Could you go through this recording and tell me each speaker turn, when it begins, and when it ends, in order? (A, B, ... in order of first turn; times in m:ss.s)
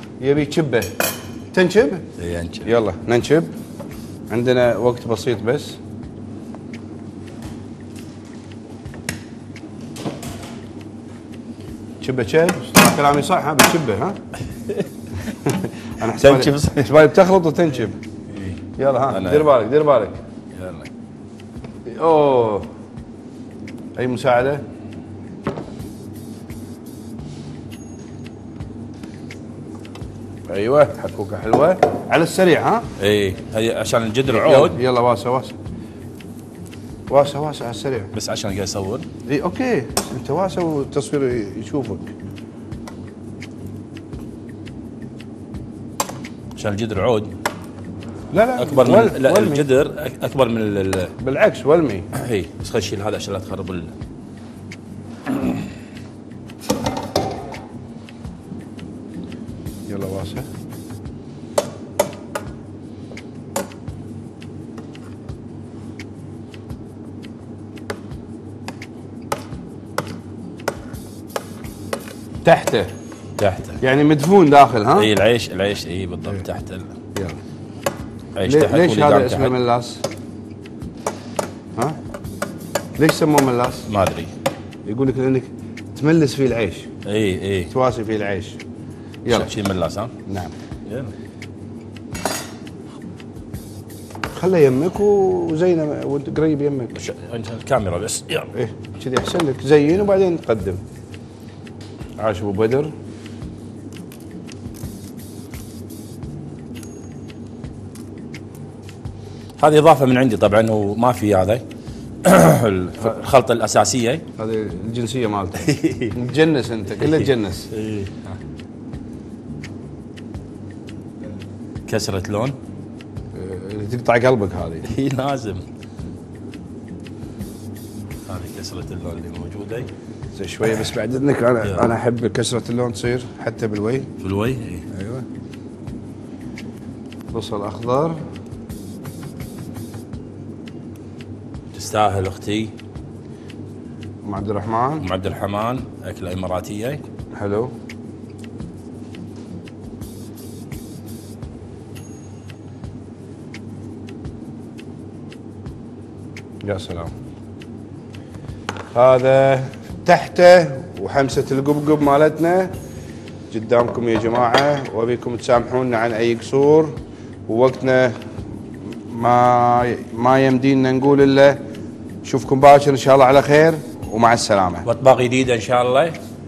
0:00.2-0:01.0 A
0:01.5-0:02.1 A
0:02.2-0:02.7 B
0:02.6-0:03.5 A
0:04.3-0:05.8 A
0:12.0-0:14.2 A
0:15.4-0:18.0 A
0:16.2-0:17.1 B
0:18.3-0:19.5 B
0:18.8-0:20.2 A
0:20.5-0:20.9 B
0:21.9-0:22.7 A
0:24.0-0:24.6 A
0:30.5-0:32.9 A
0:33.0-0:34.8 B
0:34.3-0:35.6 A
0:37.1-0:38.1 A
0:38.1-0:39.1 B
0:39.3-0:42.1 A
0:46.6-0:47.3 B
0:48.3-0:49.6 A
0:48.6-0:51.1 B
0:51.2-0:52.1 A
0:52.1-0:53.9 B
0:59.9-1:00.5 A
1:12.4-1:12.9 A
1:13.4-1:13.8 B
1:13.8-1:15.1 A
1:15.0-1:17.0 B
1:18.4-1:19.6 B
1:18.4-1:20.0 A
1:23.0-1:23.8 A
1:23.9-1:24.3 B
1:24.9-1:26.9 A
1:27.0-1:27.7 B
1:27.7-1:28.6 A
1:29.2-1:29.5 A
1:29.3-1:30.1 B
1:30.3-1:30.5 A
1:30.9-1:31.1 B
1:34.3-1:37.0 A
1:37.0-1:38.5 B
1:38.5-1:40.8 A
1:42.2-1:42.9 A
1:49.6-1:51.6 B
1:52.2-1:54.2 B
1:54.4-1:57.7 A
1:55.6-1:56.2 B
1:57.0-1:58.4 B
2:01.9-2:02.6 B
2:03.3-2:04.9 A
2:04.8-2:05.6 B
2:08.3-2:09.9 B
2:10.4-2:14.1 A
2:11.6-2:11.9 B
2:14.2-2:14.9 B
2:14.9-2:15.2 A
2:17.3-2:18.2 A
2:21.7-2:22.7 B
2:24.2-2:25.1 A
2:25.0-2:27.0 B
2:27.3-2:27.7 A
2:36.6-2:37.1 A
2:38.9-2:42.7 A
2:43.5-2:48.2 A
2:49.1-2:51.6 A
2:52.2-2:54.9 A
2:54.8-2:56.2 B